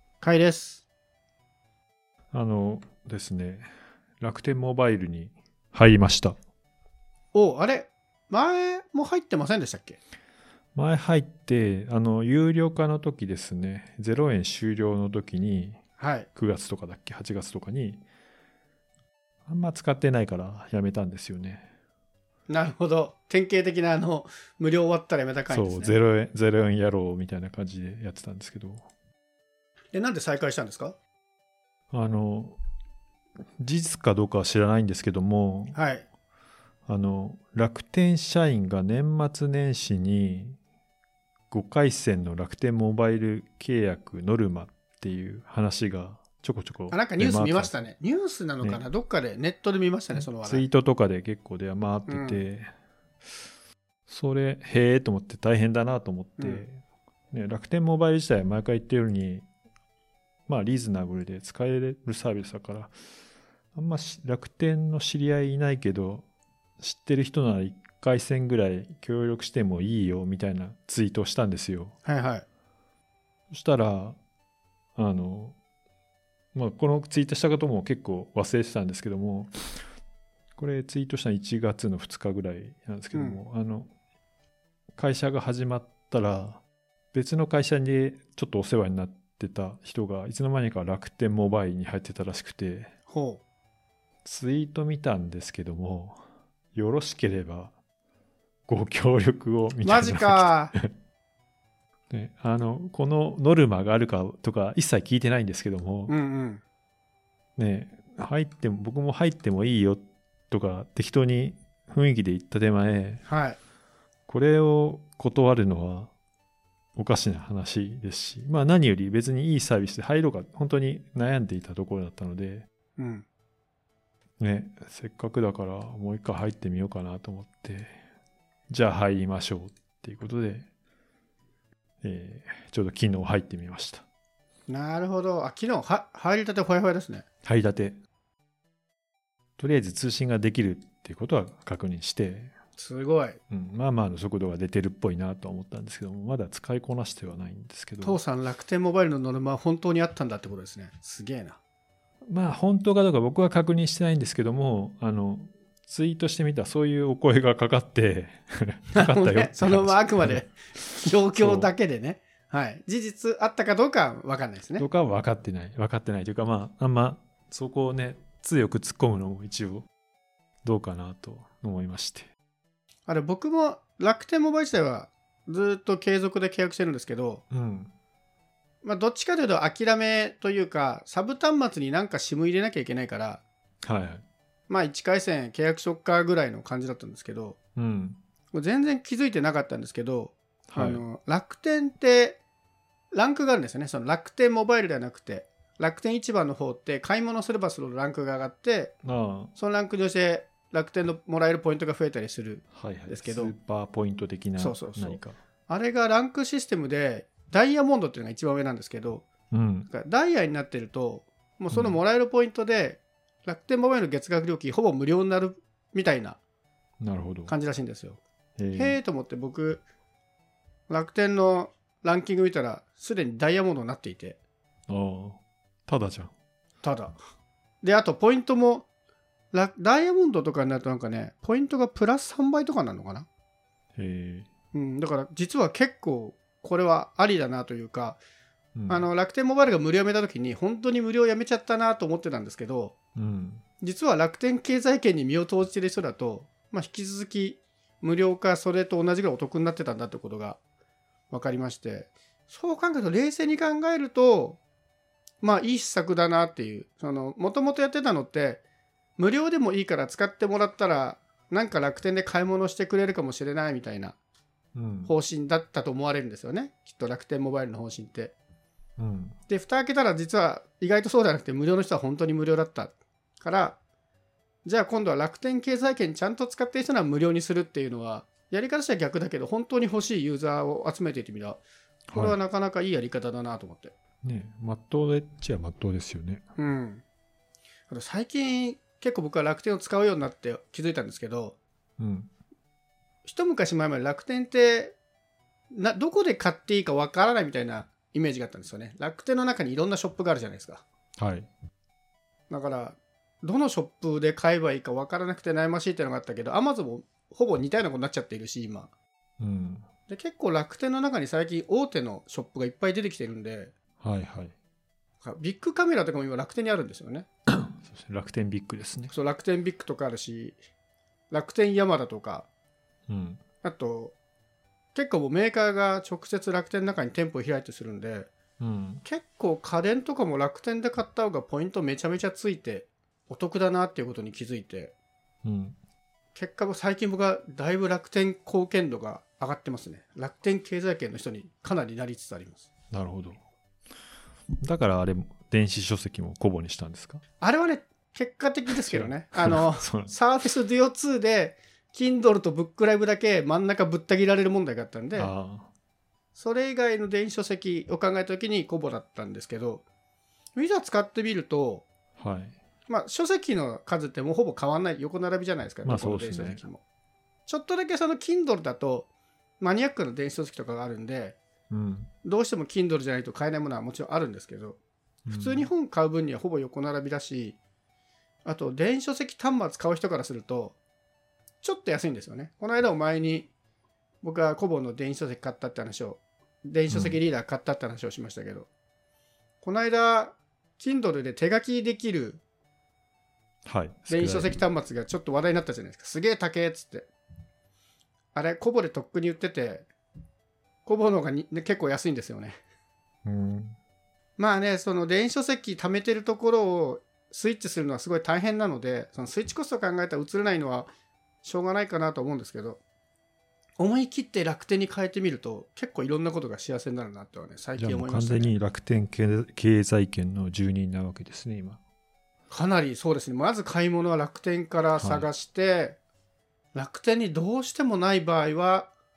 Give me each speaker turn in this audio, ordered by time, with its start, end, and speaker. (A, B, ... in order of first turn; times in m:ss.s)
0:00.2-0:00.8 A
0:02.3-0:03.7 B
0:04.2-0:06.4 B
0:07.3-0:10.0 A
0:10.7-0:15.8 B
0:16.0-0:16.3 A
0:16.4-0:18.0 B
0:19.4-0:21.7 B
0:22.5-0:25.9 A
0:25.5-0:28.9 B
0:29.9-0:31.0 A
0:31.9-0:32.6 B
0:33.6-0:35.8 B
0:35.7-0:36.0 A
0:36.9-0:40.6 B
0:41.5-0:47.7 B
0:46.9-0:50.6 A
0:50.1-0:52.7 B
0:52.1-0:52.4 A
0:54.1-0:59.5 B
0:56.4-0:56.6 A
1:00.5-1:02.9 B
1:03.7-1:06.2 B
1:06.8-1:11.9 B
1:12.0-1:12.4 A
1:13.5-1:14.2 B
1:15.0-1:15.6 B
1:16.5-1:19.5 B
1:20.6-1:23.9 B
1:23.1-1:23.4 A
1:24.9-1:32.9 B
1:33.1-1:33.4 A
1:34.2-1:36.2 B
1:36.7-1:37.7 B
1:38.7-1:40.9 B
1:39.8-1:40.7 A
1:42.1-1:46.1 B
1:46.1-1:46.6 A
1:47.6-1:53.2 B
1:53.3-1:53.6 A
1:54.3-1:56.1 B
1:57.0-2:02.7 B
2:03.0-2:03.2 A
2:04.4-2:08.0 B
2:08.7-2:10.7 B
2:12.0-2:14.0 B
2:14.7-2:17.2 A
2:17.4-2:18.0 B
2:19.6-2:22.5 B
2:22.8-2:23.4 A
2:23.5-2:28.2 B
2:28.0-2:31.6 A
2:32.3-2:41.7 B
2:38.9-2:44.8 A
2:44.8-2:49.9 B
2:50.6-2:52.3 B
2:53.1-2:57.4 A
2:57.5-2:57.9 B
2:58.8-3:03.4 A
3:03.8-3:04.2 B
3:04.7-3:07.6 A
3:07.8-3:08.2 B
3:08.5-3:12.4 A
3:10.7-3:11.0 B
3:13.1-3:18.9 A
3:19.0-3:19.5 B
3:19.5-3:23.5 A
3:22.7-3:25.4 B
3:24.6-3:29.2 A
3:29.5-3:29.9 B
3:29.9-3:36.4 A
3:37.0-3:37.5 B
3:37.5-3:38.2 A
3:38.6-3:39.0 B
3:38.7-3:39.8 A
3:40.9-3:44.4 A
3:44.9-3:46.3 B
3:46.8-3:47.2 A
3:47.8-3:48.8 A
3:49.5-3:53.3 A
3:54.0-3:54.5 B
3:54.7-3:58.2 A
3:58.8-3:59.0 B
3:58.9-4:02.9 A
4:03.2-4:03.6 B
4:03.8-4:10.6 A
4:11.3-4:14.6 A
4:15.4-4:18.6 A
4:19.2-4:24.2 A
4:24.7-4:25.1 B
4:25.1-4:28.3 A
4:29.0-4:29.4 B
4:29.5-4:33.8 A
4:34.6-4:41.6 A
4:42.1-4:42.4 B
4:42.1-4:43.9 A
4:44.2-4:46.4 B
4:46.6-4:47.0 A
4:47.9-4:51.6 A
4:52.0-4:52.3 B
4:53.2-4:55.0 A
4:55.7-5:00.8 A
5:01.2-5:01.5 B
5:02.5-5:08.9 A
5:09.4-5:09.8 B
5:10.1-5:13.7 A
5:14.0-5:14.5 B
5:15.2-5:17.3 A
5:17.6-5:19.1 B
5:19.1-5:20.6 A
5:21.3-5:22.5 A
5:23.1-5:23.4 B
5:23.6-5:24.1 A
5:24.9-5:28.3 A
5:28.6-5:29.0 B
5:29.0-5:34.9 A
5:35.4-5:35.8 B
5:36.3-5:42.7 A
5:42.9-5:43.4 B
5:44.6-5:47.2 B
5:47.4-5:55.3 A
5:48.8-5:50.1 B
5:55.1-5:55.7 B
5:56.3-5:59.8 A
6:00.6-6:01.9 A
6:02.2-6:02.6 B
6:02.9-6:06.8 A
6:05.8-6:06.6 B
6:07.5-6:09.1 A
6:09.6-6:11.4 A
6:11.7-6:12.1 B
6:12.2-6:14.8 A
6:15.2-6:15.7 B
6:15.3-6:17.6 A
6:18.4-6:20.8 A
6:21.6-6:23.5 A
6:24.2-6:28.7 A
6:26.9-6:27.2 B
6:29.6-6:32.4 A
6:33.6-6:34.6 B
6:34.1-6:37.1 A
6:38.3-6:39.9 A
6:40.8-6:42.6 A
6:43.2-6:43.8 B
6:44.4-6:50.9 A
6:51.4-6:52.8 A
6:53.8-6:58.5 A
6:57.8-7:01.8 B
7:02.5-7:06.0 A
7:05.0-7:05.3 B
7:06.7-7:08.9 A